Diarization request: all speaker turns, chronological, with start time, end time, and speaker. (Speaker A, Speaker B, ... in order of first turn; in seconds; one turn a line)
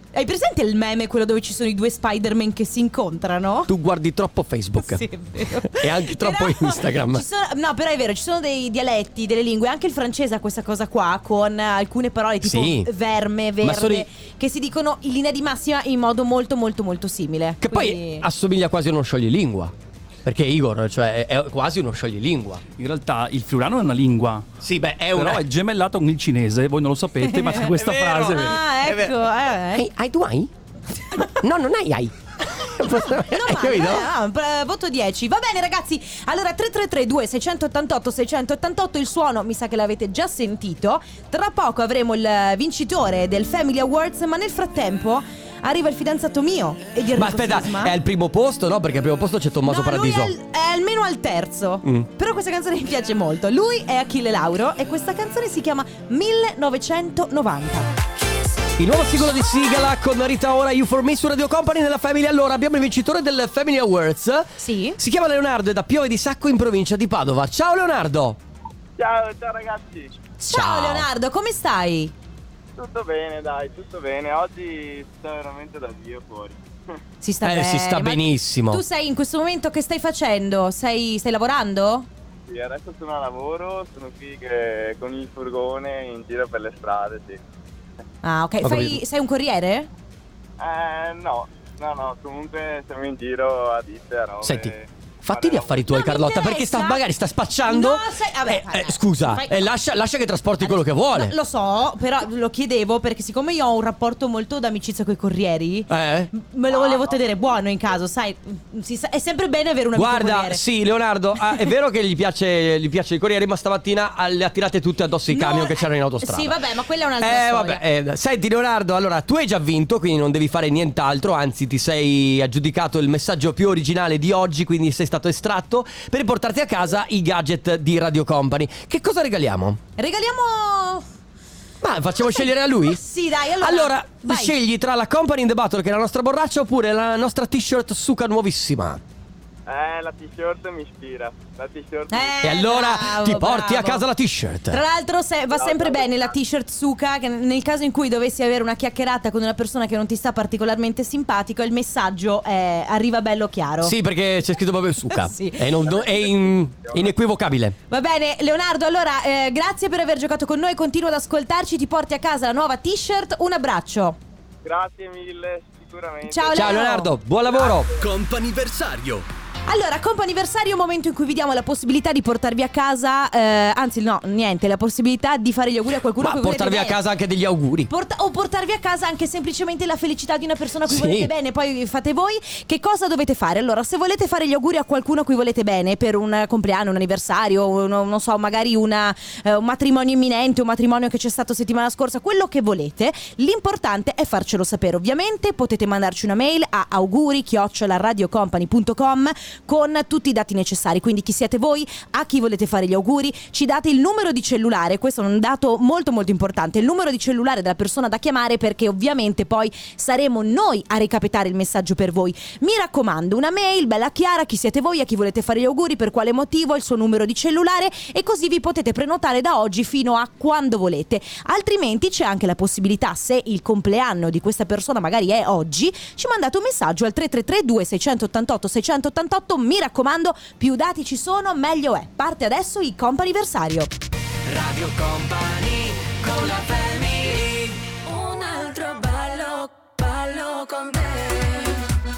Speaker A: 0.1-3.7
Speaker B: 3.7-7.2
Speaker A: 4.8-18.2
Speaker B: 12.4-12.9
Speaker B: 13.6-14.1
Speaker B: 17.6-19.7
Speaker B: 20.2-22.6
Speaker C: 22.8-24.4
Speaker B: 24.6-25.4
Speaker C: 25.1-28.6
Speaker A: 27.2-27.7
Speaker B: 27.7-30.5
Speaker A: 28.3-29.9
Speaker B: 31.2-34.1
Speaker A: 33.1-48.0
Speaker B: 47.1-50.3
Speaker A: 49.6-57.9
Speaker B: 58.8-68.4
Speaker A: 64.6-65.0
Speaker D: 69.0-70.2
Speaker A: 70.4-72.1
Speaker B: 70.5-71.1
Speaker D: 72.8-76.6
Speaker A: 77.2-82.1
Speaker B: 77.4-78.8
Speaker D: 82.5-87.4
Speaker A: 88.2-89.9
Speaker B: 88.6-89.0
Speaker D: 90.6-95.9
Speaker B: 94.4-101.3
Speaker A: 95.9-97.0
Speaker A: 97.7-99.7
Speaker A: 100.6-110.6
Speaker B: 105.9-106.3
Speaker D: 106.7-107.4
Speaker B: 110.0-116.6
Speaker A: 115.3-117.8
Speaker B: 117.2-129.8
Speaker A: 130.0-131.1
Speaker B: 131.8-133.0
Speaker A: 132.2-134.5
Speaker B: 133.6-139.0
Speaker D: 139.7-142.5
Speaker A: 142.1-144.0
Speaker B: 142.4-144.8
Speaker A: 144.7-153.9
Speaker D: 145.5-146.3
Speaker B: 153.8-157.7
Speaker A: 155.1-155.7
Speaker D: 155.9-157.1
Speaker A: 157.9-164.2
Speaker D: 164.6-166.8
Speaker A: 166.3-167.1
Speaker B: 166.5-168.1
Speaker A: 169.7-177.0
Speaker B: 176.2-177.9
Speaker A: 177.9-233.9
Speaker B: 180.8-181.3
Speaker E: 234.5-241.8